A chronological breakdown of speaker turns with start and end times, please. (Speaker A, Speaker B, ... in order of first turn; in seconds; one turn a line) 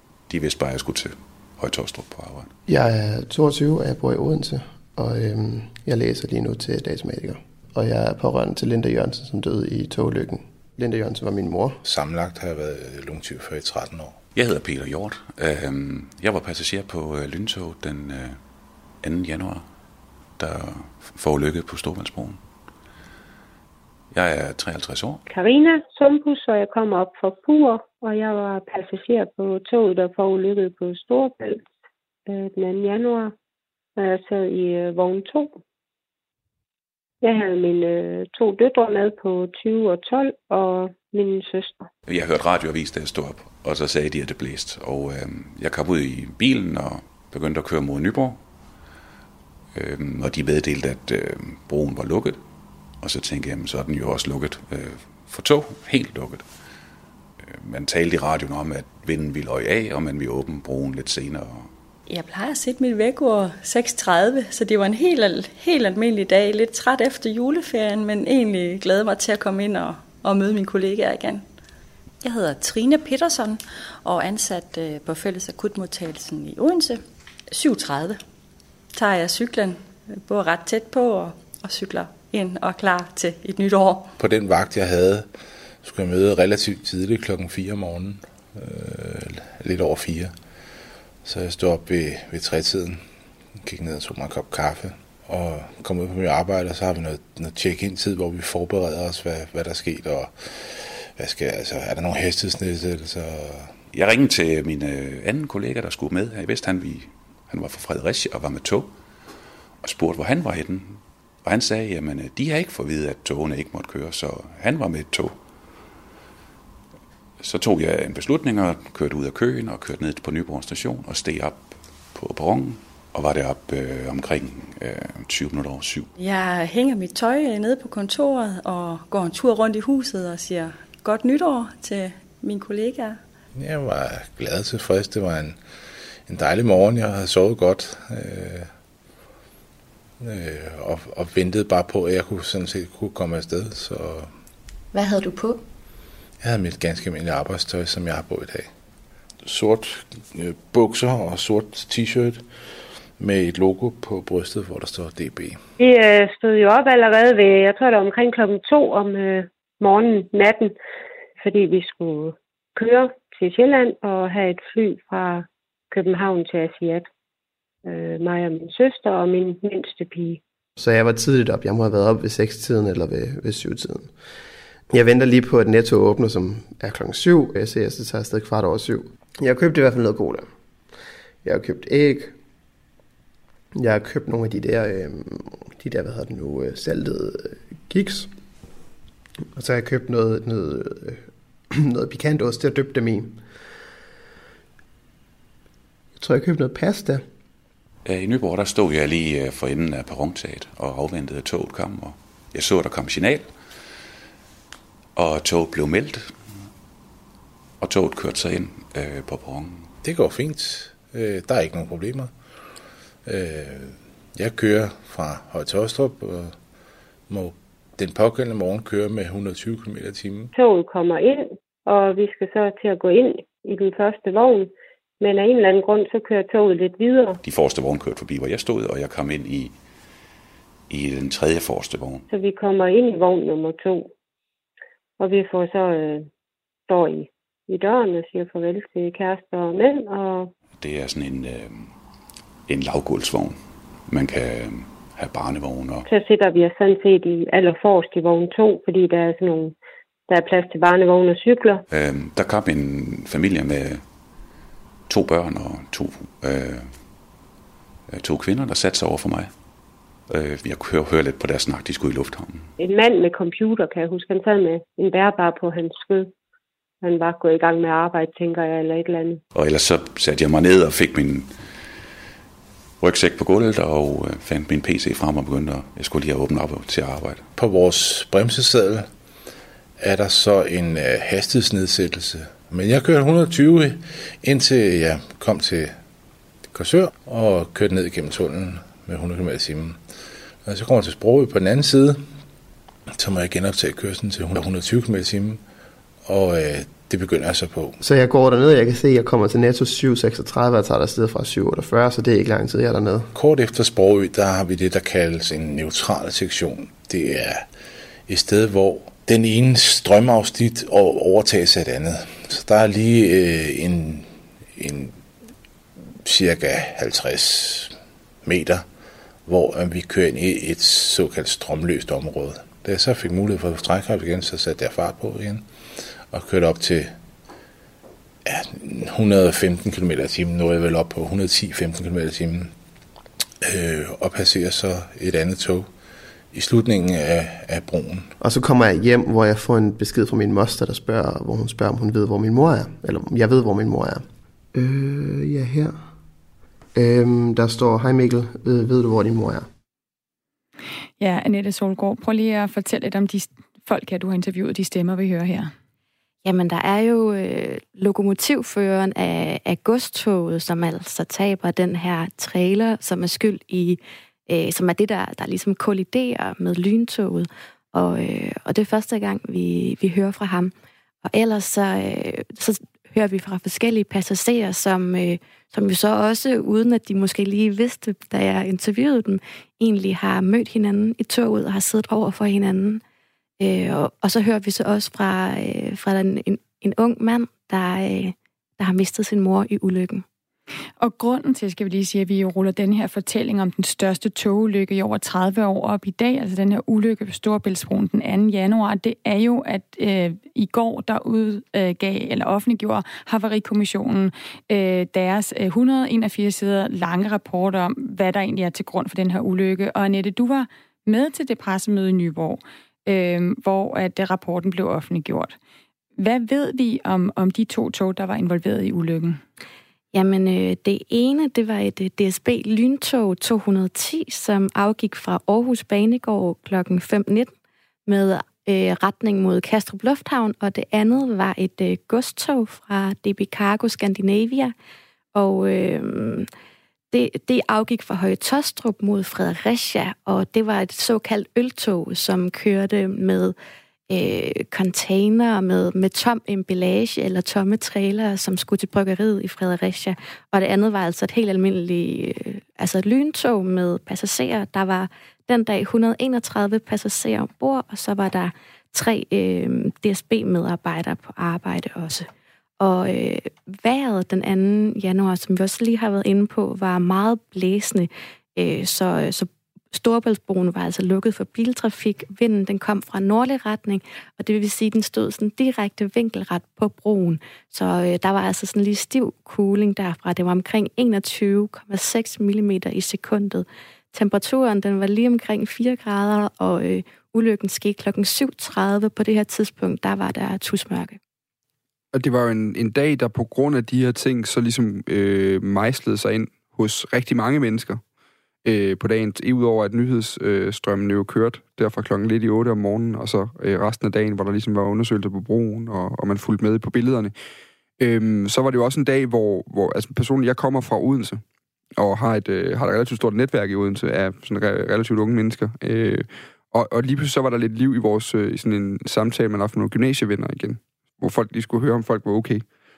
Speaker A: 0.3-2.5
Speaker B: 2.7-11.8
Speaker C: 11.8-14.2
Speaker A: 14.3-18.4
Speaker A: 19.0-19.7
Speaker A: 20.4-22.4
Speaker A: 24.1-25.2
Speaker D: 25.3-31.6
Speaker D: 32.3-33.3
Speaker D: 34.0-35.6
Speaker D: 37.2-41.9
Speaker A: 42.1-48.4
Speaker A: 49.7-52.4
Speaker A: 53.0-56.5
Speaker A: 57.4-61.7
Speaker E: 62.1-71.5
Speaker E: 72.2-78.2
Speaker E: 78.9-84.2
Speaker C: 84.2-85.3
Speaker C: 85.8-90.3
Speaker C: 91.2-93.0
Speaker C: 93.6-103.7
Speaker A: 103.9-108.9
Speaker A: 109.8-115.4
Speaker A: 117.4-126.1
Speaker E: 126.2-133.2
Speaker C: 133.6-135.6
Speaker C: 136.3-138.7
Speaker C: 140.2-144.3
Speaker F: 144.9-145.6
Speaker C: 146.4-148.7
Speaker C: 149.4-152.4
Speaker C: 153.2-155.6
Speaker D: 155.8-160.7
Speaker D: 161.4-167.1
Speaker D: 167.8-170.4
Speaker B: 170.8-174.1
Speaker B: 174.9-180.5
Speaker B: 181.4-182.3
Speaker B: 183.8-188.3
Speaker B: 189.6-193.4
Speaker B: 196.2-197.2
Speaker A: 198.1-203.5
Speaker A: 205.2-206.3
Speaker A: 207.8-209.9
Speaker C: 210.0-212.3
Speaker C: 213.2-216.6
Speaker C: 217.3-220.5
Speaker D: 220.6-227.4
Speaker A: 227.4-229.7
Speaker A: 230.9-232.2
Speaker D: 232.3-234.1
Speaker D: 235.2-236.3
Speaker D: 236.9-240.5
Speaker A: 240.8-241.9
Speaker A: 242.7-246.1
Speaker D: 246.1-249.8
Speaker D: 250.3-251.8
Speaker A: 251.9-254.0
Speaker A: 255.1-257.0
Speaker A: 258.1-259.5
Speaker A: 260.3-262.7
Speaker D: 262.8-266.3
Speaker D: 267.0-269.4
Speaker A: 269.6-271.5
Speaker A: 273.0-277.5
Speaker C: 277.6-279.1
Speaker C: 280.0-285.9
Speaker C: 286.7-290.0
Speaker C: 290.6-292.2
Speaker C: 293.2-295.6
Speaker C: 296.3-298.0
Speaker B: 298.0-303.3
Speaker C: 303.3-307.7
Speaker C: 308.3-315.2
Speaker C: 316.2-317.9
Speaker C: 318.4-318.9
Speaker C: 319.5-325.6
Speaker C: 326.3-327.1
Speaker C: 328.4-332.7
Speaker C: 333.6-335.9
Speaker C: 336.5-338.3
Speaker B: 338.4-346.0
Speaker B: 346.9-349.7
Speaker G: 351.2-355.7
Speaker F: 356.4-370.7
Speaker F: 371.2-383.0
Speaker F: 383.6-390.2
Speaker G: 391.0-415.6
Speaker G: 416.2-419.4
Speaker F: 420.1-427.5
Speaker F: 428.1-434.7
Speaker F: 435.3-436.5
Speaker F: 437.1-443.6
Speaker F: 444.1-462.3
Speaker F: 462.8-491.2
Speaker H: 492.1-498.0
Speaker H: 498.6-507.3
Speaker H: 508.0-511.4
Speaker H: 512.0-522.6